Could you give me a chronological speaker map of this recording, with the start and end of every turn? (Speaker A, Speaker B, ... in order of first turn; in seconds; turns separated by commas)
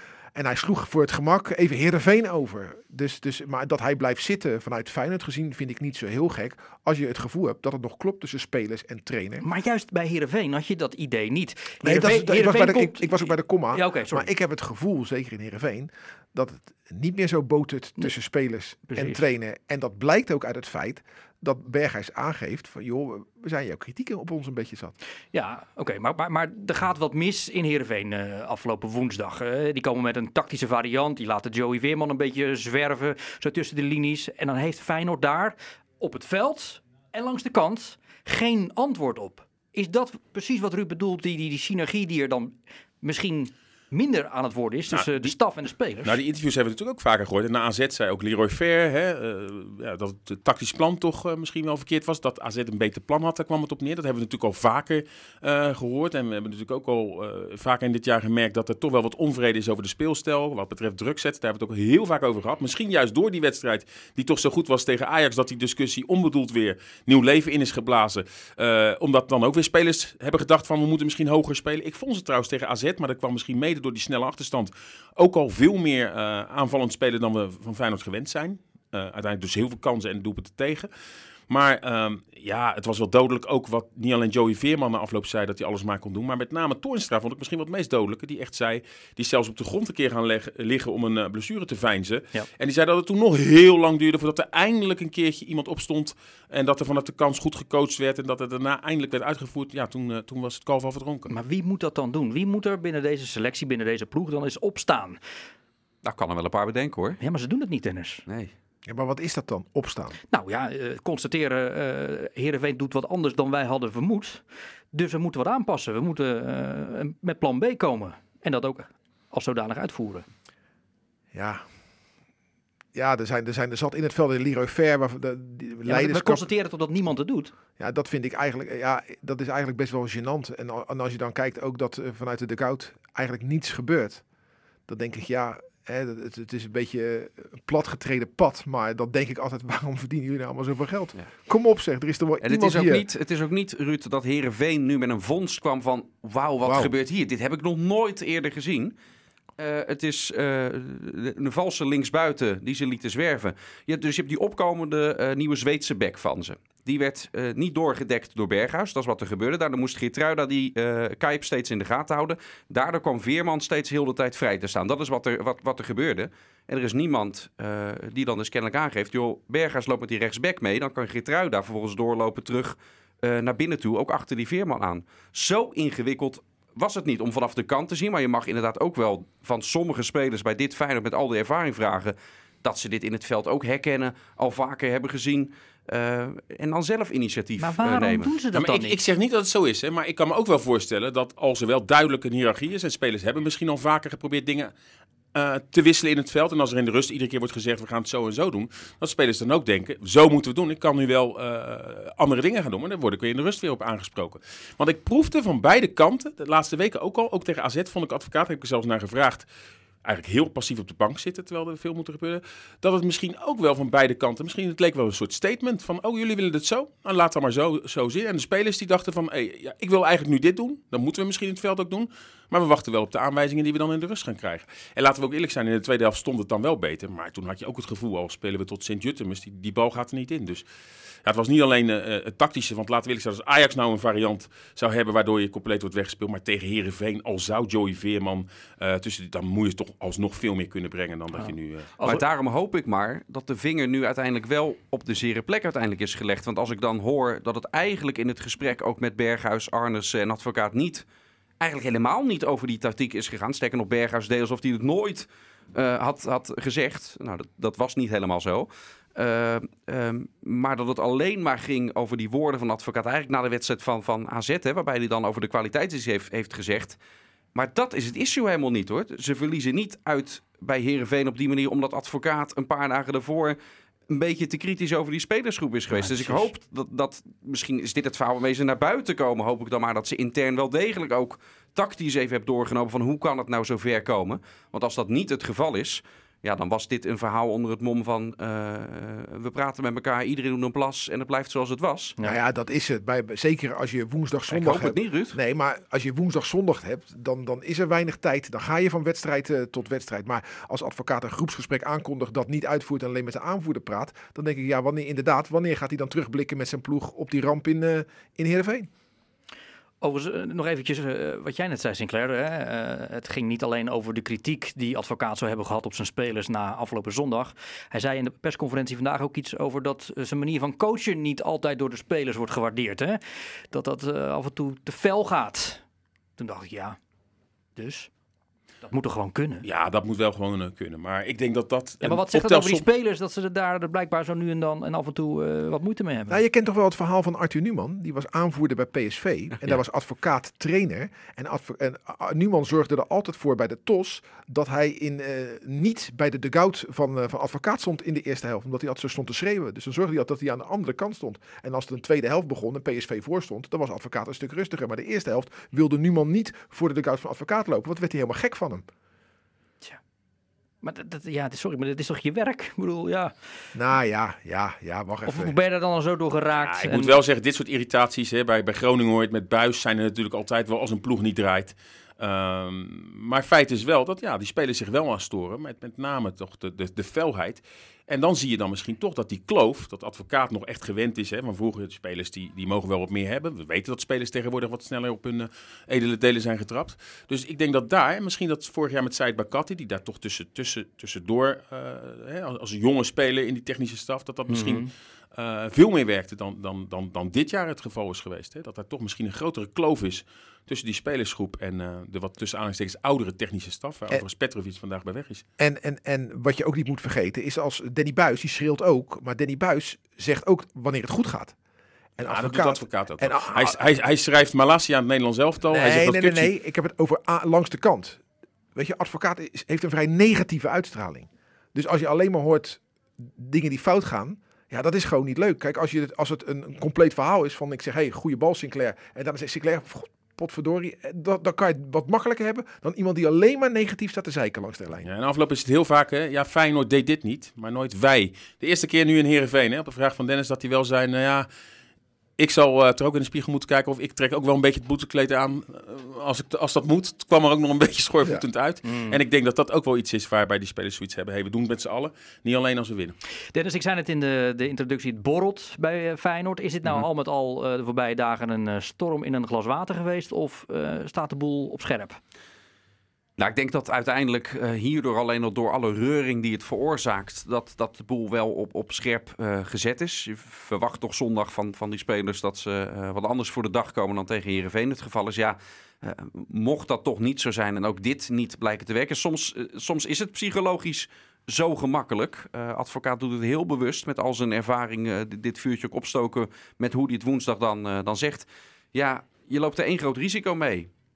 Speaker A: 0.3-9.4, Speaker B: 9.4-14.3, Speaker A: 11.8-24.9, Speaker B: 18.9-19.2, Speaker B: 25.3-46.2, Speaker C: 44.9-45.3, Speaker C: 46.0-80.9, Speaker C: 81.5-101.3, Speaker B: 101.3-105.2, Speaker D: 106.0-107.2, Speaker B: 107.2-108.2, Speaker D: 108.3-108.5, Speaker A: 108.8-110.2, Speaker B: 110.3-120.2, Speaker A: 121.3-121.6, Speaker A: 122.9-126.4, Speaker B: 125.8-127.5, Speaker A: 127.8-134.2, Speaker A: 134.9-143.1, Speaker D: 142.4-148.9, Speaker A: 146.6-146.9, Speaker D: 149.6-188.3, Speaker B: 187.6-189.0, Speaker C: 188.5-194.7, Speaker C: 195.3-209.4, Speaker C: 210.0-230.6, Speaker C: 231.2-241.9, Speaker B: 241.4-242.2, Speaker D: 242.0-251.0, Speaker D: 251.6-267.0, Speaker D: 267.5-273.6, Speaker D: 274.1-292.2, Speaker B: 275.9-276.5, Speaker A: 292.2-308.9, Speaker D: 294.5-295.4, Speaker B: 310.0-325.8, Speaker B: 326.4-327.0, Speaker B: 327.8-328.1, Speaker B: 328.8-329.6, Speaker C: 329.6-332.8, Speaker B: 332.0-336.4, Speaker A: 336.3-358.8, Speaker B: 360.8-363.3, Speaker A: 363.7-365.5, Speaker B: 365.2-367.2, Speaker C: 366.6-405.4, Speaker B: 394.5-394.9, Speaker A: 405.6-411.5, Speaker A: 412.2-413.8, Speaker C: 412.3-416.5, Speaker A: 415.6-418.2, Speaker A: 418.7-435.1, Speaker C: 435.0-441.5, Speaker C: 442.4-453.1, Speaker B: 448.8-449.2, Speaker B: 453.5-462.2, Speaker D: 463.4-490.9